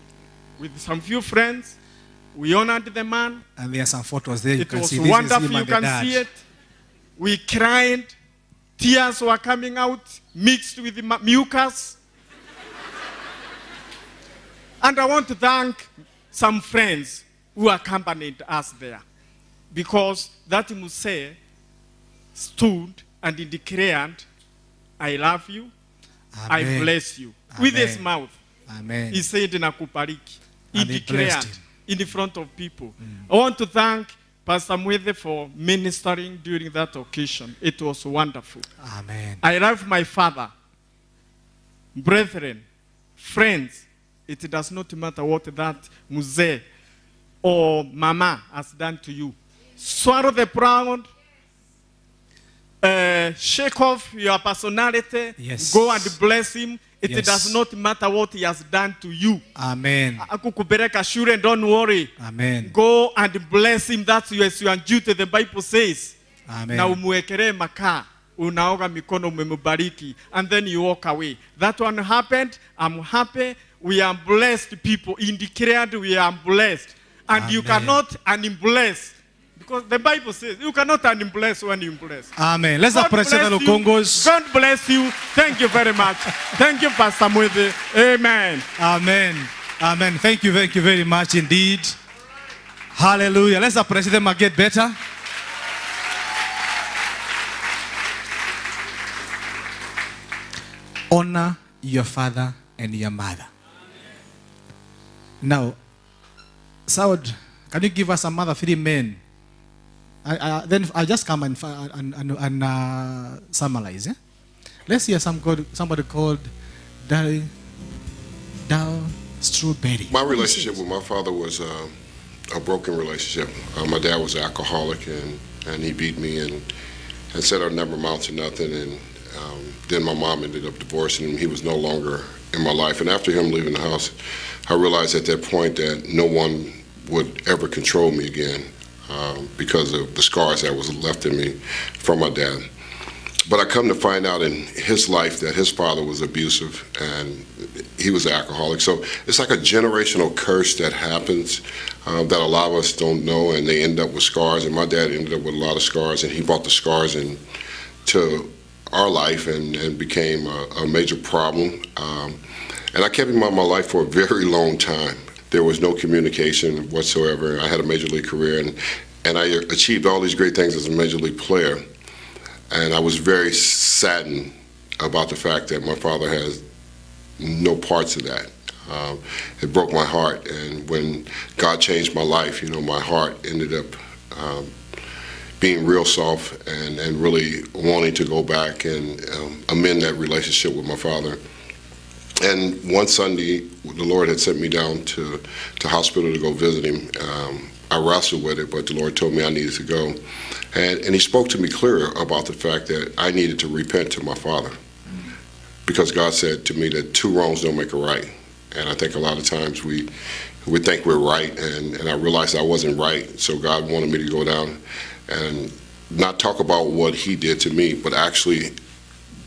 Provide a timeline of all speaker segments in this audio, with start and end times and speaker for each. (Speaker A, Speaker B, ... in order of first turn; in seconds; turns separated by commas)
Speaker A: 0.6-1.8, Speaker A: 2.3-3.4, Speaker B: 3.6-6.2, Speaker A: 4.6-6.3, Speaker A: 7.2-8.1, Speaker A: 8.8-11.9, Speaker A: 14.8-19.0, Speaker A: 19.7-21.4, Speaker A: 22.3-24.2, Speaker A: 25.0-25.7, Speaker B: 26.3-26.9, Speaker A: 26.5-28.3, Speaker B: 27.5-28.1, Speaker B: 28.7-29.3, Speaker A: 29.1-38.6, Speaker B: 30.7-31.6, Speaker B: 38.8-39.4, Speaker A: 39.4-40.5, Speaker A: 41.9-42.6, Speaker A: 43.2-46.6, Speaker A: 47.4-51.1, Speaker A: 52.8-59.4, Speaker B: 55.4-56.1, Speaker B: 57.1-57.6, Speaker B: 59.5-60.2, Speaker A: 60.2-62.1, Speaker B: 62.2-62.7, Speaker A: 62.6-66.1, Speaker B: 66.5-67.0, Speaker A: 66.7-82.3, Speaker B: 77.3-78.0, Speaker B: 82.4-84.3, Speaker A: 82.9-88.7, Speaker B: 88.8-92.0, Speaker B: 92.9-95.0, Speaker B: 101.1-103.5, Speaker B: 105.4-105.8, Speaker B: 106.9-109.2, Speaker B: 110.2-114.2, Speaker B: 114.9-116.5, Speaker B: 117.0-117.5, Speaker B: 118.7-120.8, Speaker C: 120.1-121.9, Speaker C: 122.5-126.7, Speaker C: 127.3-142.7, Speaker C: 143.5-157.4, Speaker C: 158.0-162.4, Speaker C: 162.9-171.8, Speaker C: 172.7-176.6, Speaker C: 177.4-184.7, Speaker C: 185.6-191.4, Speaker C: 192.4-200.2, Speaker C: 200.7-204.7, Speaker C: 205.8-210.1, Speaker C: 210.6-218.7